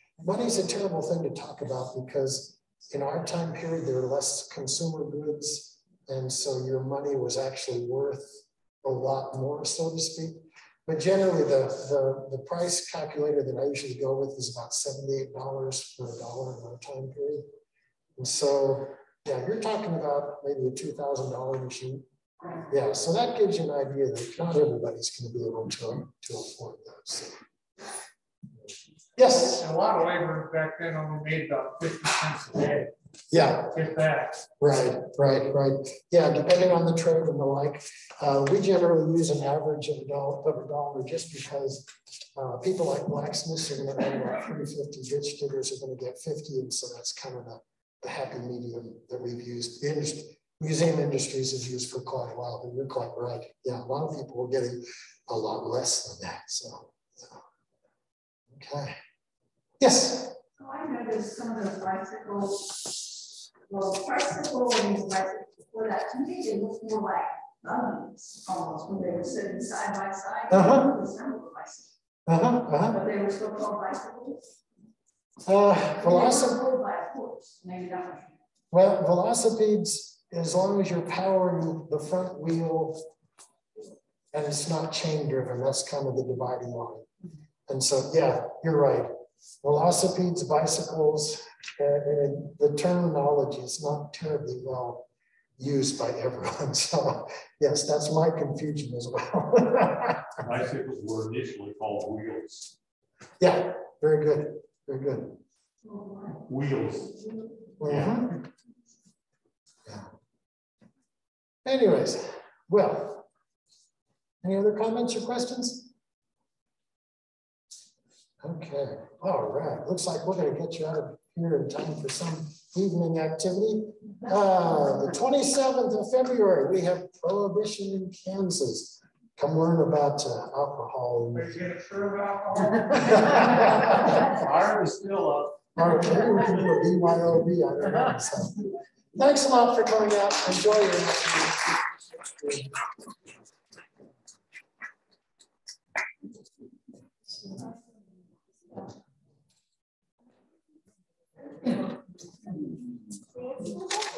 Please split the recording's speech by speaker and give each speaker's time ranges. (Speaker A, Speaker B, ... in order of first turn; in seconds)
Speaker A: 0.2-17.5, 18.2-22.1, 22.7-27.4, 29.2-29.7, 33.3-33.7, 34.6-57.4, 58.5-59.0, 59.8-60.4, 70.5-71.0, 72.3-73.0, 75.5-76.6, 78.7-83.0, 84.3-87.1, 87.7-95.0, 95.6-100.3, 103.4-105.4, 107.8-108.4, 111.6-113.3, 114.4-115.9, 118.4-131.6, 133.1-134.3, 135.8-142.8
Speaker B: 29.4-32.9, 33.7-34.5, 131.3-134.1
Speaker C: 60.6-63.0, 63.7-71.9, 72.9-74.4, 76.0-78.3, 105.8-106.4
Speaker D: 100.4-102.7, 106.4-107.3, 107.8-108.2, 134.1-135.7